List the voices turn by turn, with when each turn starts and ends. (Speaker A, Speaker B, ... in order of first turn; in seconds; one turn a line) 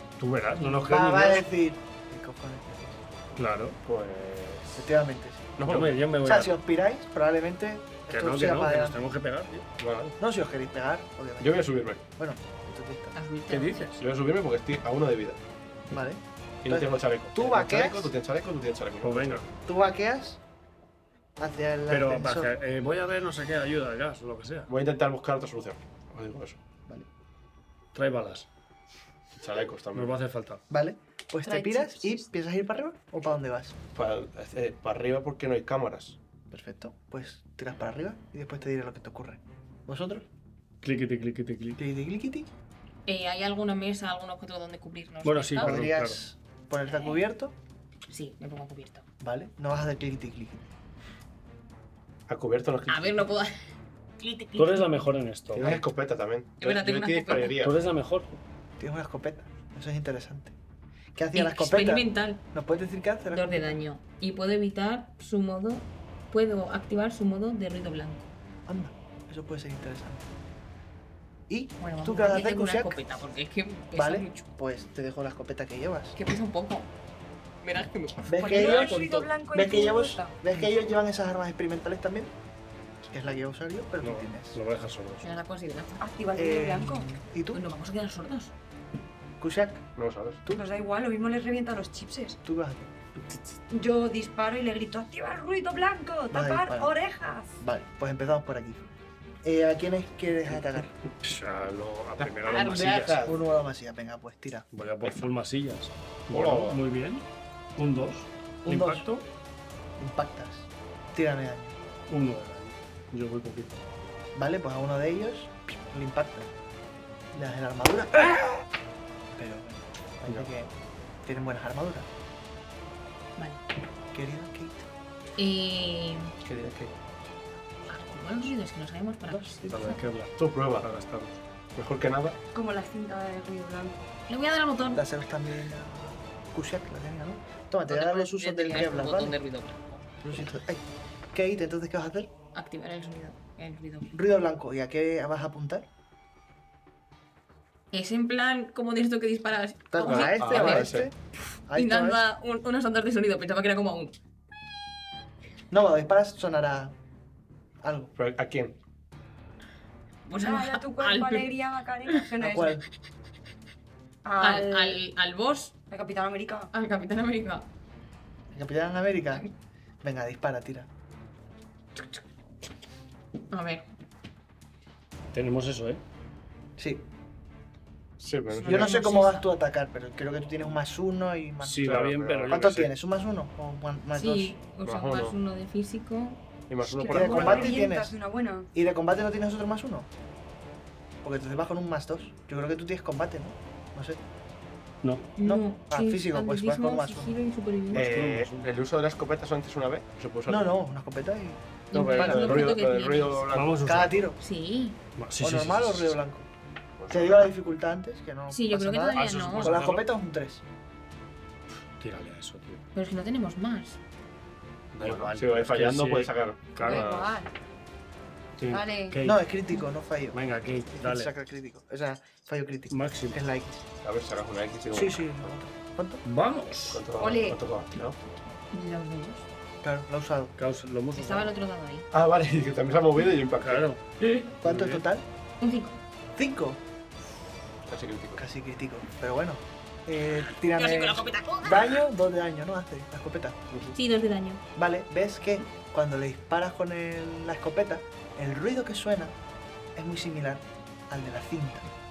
Speaker A: 0.2-1.4
Speaker B: 0.8-3.0
Speaker A: 3.4-3.8
Speaker C: 3.8-4.9
Speaker B: 4.8-5.6
Speaker C: 5.6-6.2
Speaker A: 5.6-6.5
Speaker B: 6.2-9.0
Speaker A: 8.1-9.7
Speaker C: 9.8-10.2
Speaker B: 10.2-13.2
Speaker C: 11.4-12.0
Speaker D: 13.1-14.0
Speaker C: 13.5-15.4
Speaker A: 13.7-14.0
Speaker B: 15.9-18.1
Speaker C: 16.6-19.4
Speaker A: 19.0-19.5
Speaker B: 19.6-20.4
Speaker B: 21.4-22.5
Speaker A: 21.9-24.7
Speaker C: 24.7-26.6
Speaker A: 27.9-28.5
Speaker C: 29.3-30.2
Speaker A: 29.9-30.6
Speaker B: 30.7-33.8
Speaker E: 31.4-32.3
Speaker C: 33.9-36.2
Speaker B: 36.5-40.3
Speaker A: 40.8-41.8
Speaker B: 41.8-42.5
Speaker D: 43.1-45.8
Speaker A: 45.2-46.2
Speaker B: 45.6-47.5
Speaker D: 46.9-47.2
Speaker D: 48.1-49.0
Speaker B: 49.2-50.6
Speaker C: 52.3-53.3
Speaker D: 52.9-53.5
Speaker D: 54.2-55.0
Speaker A: 54.5-55.8
Speaker C: 55.5-57.8
Speaker D: 56.6-57.6
Speaker A: 57.6-58.4
Speaker B: 58.8-60.5
Speaker B: 61.1-63.8
Speaker D: 61.3-62.4
Speaker D: 63.3-68.3
Speaker B: 68.7-70.3
Speaker B: 71.5-73.0
Speaker D: 71.8-74.5
Speaker B: 73.9-76.2
Speaker D: 76.1-76.9
Speaker D: 77.6-78.7
Speaker B: 78.3-79.0
Speaker E: 78.4-80.3
Speaker A: 78.5-79.3
Speaker B: 79.5-82.3
Speaker B: 83.1-84.6
Speaker A: 84.0-85.4
Speaker D: 85.2-86.0
Speaker E: 86.0-87.1
Speaker B: 86.3-87.6
Speaker D: 87.5-88.5
Speaker B: 89.4-89.9
Speaker C: 90.0-90.4
Speaker E: 90.5-92.4
Speaker B: 92.4-92.9
Speaker E: 93.7-97.5
Speaker B: 96.3-96.9
Speaker B: 97.6-98.8
Speaker B: 99.4-100.9
Speaker A: 101.1-103.3
Speaker C: 102.2-103.4
Speaker B: 103.2-104.7
Speaker A: 104.7-109.3
Speaker C: 106.3-106.8
Speaker B: 108.7-109.1
Speaker B: 110.0-111.8
Speaker A: 112.1-113.8
Speaker B: 114.3-116.5
Speaker B: 117.3-118.6
Speaker B: 119.3-120.7
Speaker B: 121.2-122.1
Speaker D: 123.4-123.6
Speaker B: 124.1-124.9
Speaker D: 125.4-126.3
Speaker C: 126.4-126.9
Speaker D: 127.9-130.0
Speaker B: 129.3-129.9
Speaker A: 129.7-131.4
Speaker C: 130.4-130.9
Speaker C: 131.7-132.4
Speaker E: 132.5-134.1
Speaker D: 134.3-135.0
Speaker B: 134.8-139.4
Speaker D: 137.9-140.0
Speaker B: 140.2-142.3
Speaker D: 142.5-144.1
Speaker B: 144.1-145.9
Speaker D: 147.9-151.1
Speaker B: 149.9-151.2
Speaker C: 150.0-151.1
Speaker B: 151.7-152.2
Speaker D: 151.7-154.2
Speaker B: 155.7-156.9
Speaker B: 157.8-158.1
Speaker C: 158.2-158.8
Speaker D: 160.2-161.5
Speaker E: 160.4-162.8
Speaker B: 162.4-162.8
Speaker E: 164.2-165.0
Speaker D: 164.4-165.7
Speaker E: 165.9-166.7
Speaker D: 166.7-167.7
Speaker B: 168.5-169.4
Speaker B: 170.0-170.9
Speaker D: 173.5-173.9
Speaker A: 175.3-176.0
Speaker B: 176.8-177.1
Speaker C: 178.2-178.9
Speaker D: 178.6-179.4
Speaker B: 178.6-184.6
Speaker A: 181.6-182.9
Speaker C: 181.8-182.8
Speaker D: 184.1-187.8
Speaker C: 184.8-185.3
Speaker C: 186.7-187.7
Speaker E: 187.0-188.7
Speaker B: 187.1-188.1
Speaker B: 188.7-190.1
Speaker B: 191.2-194.2
Speaker A: 195.0-195.3
Speaker D: 195.4-198.2
Speaker B: 195.4-197.4
Speaker A: 197.9-198.7
Speaker C: 197.9-200.7
Speaker B: 200.5-202.7
Speaker D: 201.9-203.5
Speaker C: 201.9-204.1
Speaker A: 202.2-202.7
Speaker A: 203.5-204.2
Speaker B: 203.8-204.4
Speaker D: 204.4-205.0
Speaker A: 205.2-206.2
Speaker B: 205.4-206.5
Speaker C: 207.0-207.5
Speaker B: 207.1-210.6
Speaker D: 208.5-209.7
Speaker A: 209.1-210.1
Speaker A: 212.0-212.8
Speaker D: 212.9-214.0
Speaker A: 214.9-217.1
Speaker C: 215.0-217.4
Speaker E: 216.8-217.5
Speaker A: 218.6-219.4
Speaker E: 218.7-219.2
Speaker B: 219.2-223.8
Speaker A: 220.3-221.3
Speaker A: 222.9-223.4
Speaker C: 224.0-225.4
Speaker B: 224.9-226.2
Speaker A: 226.2-227.0
Speaker C: 226.8-228.2
Speaker E: 227.2-227.6
Speaker D: 228.7-229.5
Speaker B: 229.8-230.5
Speaker A: 230.6-231.5
Speaker D: 231.1-232.1
Speaker C: 232.1-233.9
Speaker A: 233.6-234.0
Speaker B: 234.6-235.3
Speaker A: 234.6-235.0
Speaker D: 235.6-236.0
Speaker B: 236.3-236.8
Speaker C: 237.8-238.4
Speaker B: 238.3-243.6
Speaker D: 240.6-242.1
Speaker C: 243.7-243.9
Speaker D: 243.9-244.6
Speaker B: 244.8-249.4
Speaker B: 249.9-251.9